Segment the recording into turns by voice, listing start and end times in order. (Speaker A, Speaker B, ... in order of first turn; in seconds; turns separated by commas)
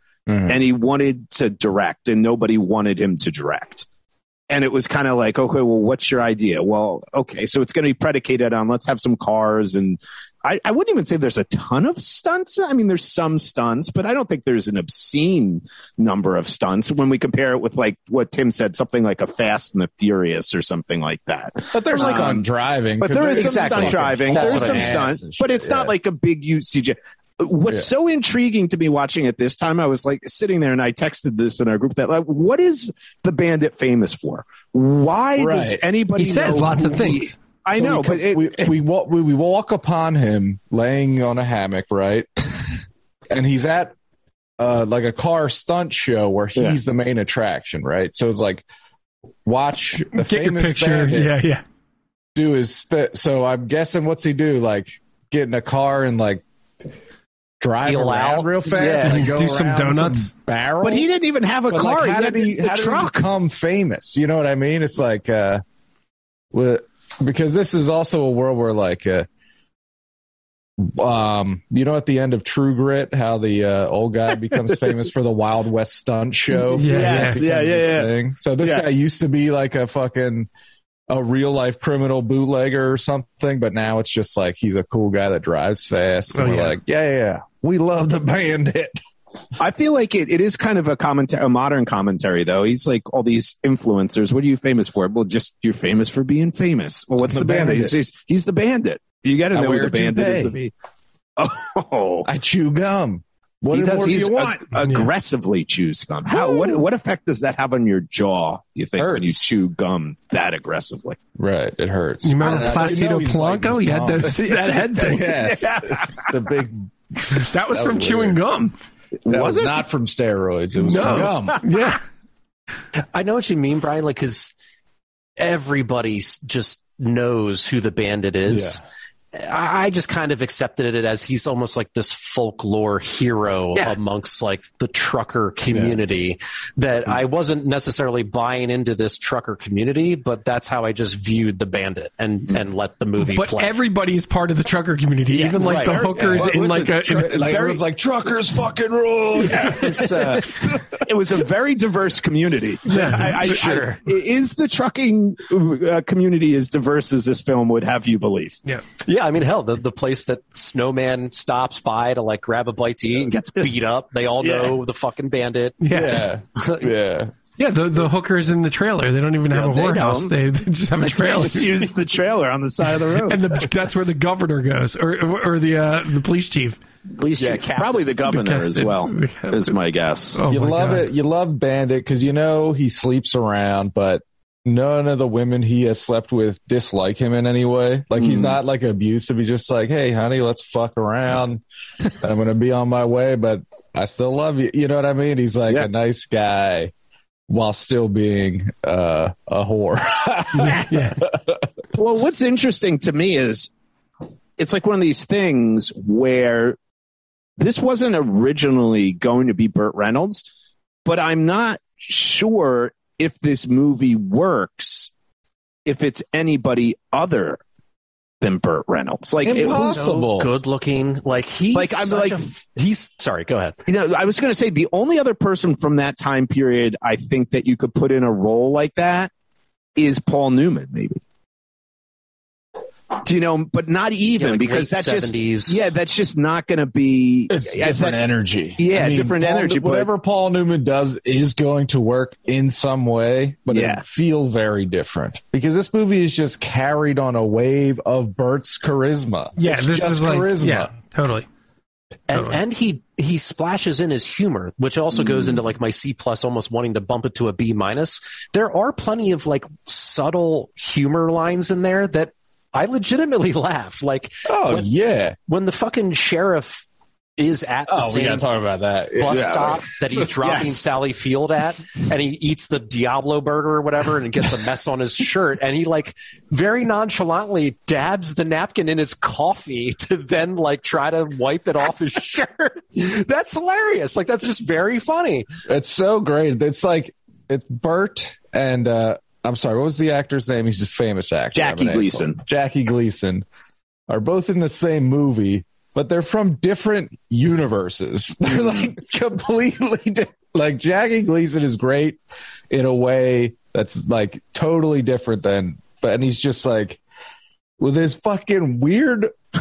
Speaker A: 0.3-0.6, Speaker B: 0.5-3.9, Speaker B: 4.5-22.4, Speaker A: 21.7-25.9, Speaker B: 23.0-38.7, Speaker C: 23.2-25.1, Speaker A: 35.4-35.8, Speaker D: 36.2-37.4, Speaker A: 37.8-42.8, Speaker A: 43.3-43.9, Speaker A: 44.6-48.6, Speaker A: 49.4-51.3, Speaker D: 50.1-51.6, Speaker A: 52.4-56.4, Speaker A: 57.6-61.1, Speaker C: 57.9-59.3, Speaker D: 59.0-60.3, Speaker B: 60.8-63.2, Speaker A: 61.7-65.6, Speaker A: 66.5-69.3, Speaker A: 70.8-80.5, Speaker D: 76.7-77.4, Speaker B: 76.8-78.1, Speaker A: 81.1-89.0, Speaker D: 86.3-86.8, Speaker B: 89.6-100.7, Speaker A: 97.2-97.9, Speaker A: 99.5-100.5, Speaker B: 101.4-102.3, Speaker A: 102.2-104.6, Speaker B: 103.7-111.2, Speaker D: 104.8-105.1, Speaker D: 106.4-106.7, Speaker A: 109.0-109.5, Speaker A: 111.4-118.4, Speaker D: 112.2-115.5, Speaker B: 114.4-116.3, Speaker D: 117.3-118.7, Speaker B: 119.2-119.8, Speaker A: 119.3-121.6, Speaker D: 120.8-122.0, Speaker C: 123.1-124.5, Speaker C: 125.4-128.8, Speaker A: 128.5-128.8, Speaker C: 129.3-143.8, Speaker A: 135.7-136.0, Speaker D: 143.2-147.8, Speaker B: 145.3-147.6, Speaker A: 145.7-150.8, Speaker B: 149.4-158.6, Speaker C: 149.8-150.1, Speaker D: 152.9-153.8, Speaker C: 153.4-154.0, Speaker C: 159.0-165.8, Speaker B: 163.2-163.7, Speaker B: 164.4-164.8, Speaker D: 165.8-166.3, Speaker A: 165.9-167.3, Speaker C: 166.6-166.9, Speaker D: 167.6-171.9, Speaker B: 169.5-170.3, Speaker B: 171.0-173.4, Speaker D: 172.8-176.8, Speaker C: 177.2-178.0, Speaker B: 177.3-180.4, Speaker D: 178.2-179.8, Speaker D: 180.3-181.1, Speaker A: 180.5-191.6, Speaker B: 188.2-188.6, Speaker A: 192.1-196.9, Speaker A: 197.5-201.7, Speaker D: 200.6-201.2, Speaker B: 201.9-203.7, Speaker B: 204.6-206.8, Speaker B: 207.6-210.5, Speaker B: 211.0-215.1, Speaker B: 215.8-217.6, Speaker B: 218.4-220.0, Speaker A: 219.4-220.5, Speaker C: 219.5-223.8, Speaker B: 221.7-222.4, Speaker B: 223.9-229.3, Speaker B: 230.0-231.2, Speaker B: 233.2-238.2, Speaker C: 234.3-235.9, Speaker A: 237.5-250.9, Speaker B: 238.8-240.1, Speaker B: 243.7-244.0, Speaker D: 249.6-251.5, Speaker C: 252.3-264.9, Speaker D: 252.3-252.6, Speaker A: 264.5-265.4, Speaker C: 265.5-266.9, Speaker C: 267.4-268.5, Speaker A: 267.9-269.8, Speaker C: 269.2-285.5, Speaker B: 269.3-270.9, Speaker A: 285.7-293.4, Speaker B: 291.5-292.4, Speaker A: 294.1-302.2, Speaker A: 302.7-307.0, Speaker A: 307.8-309.3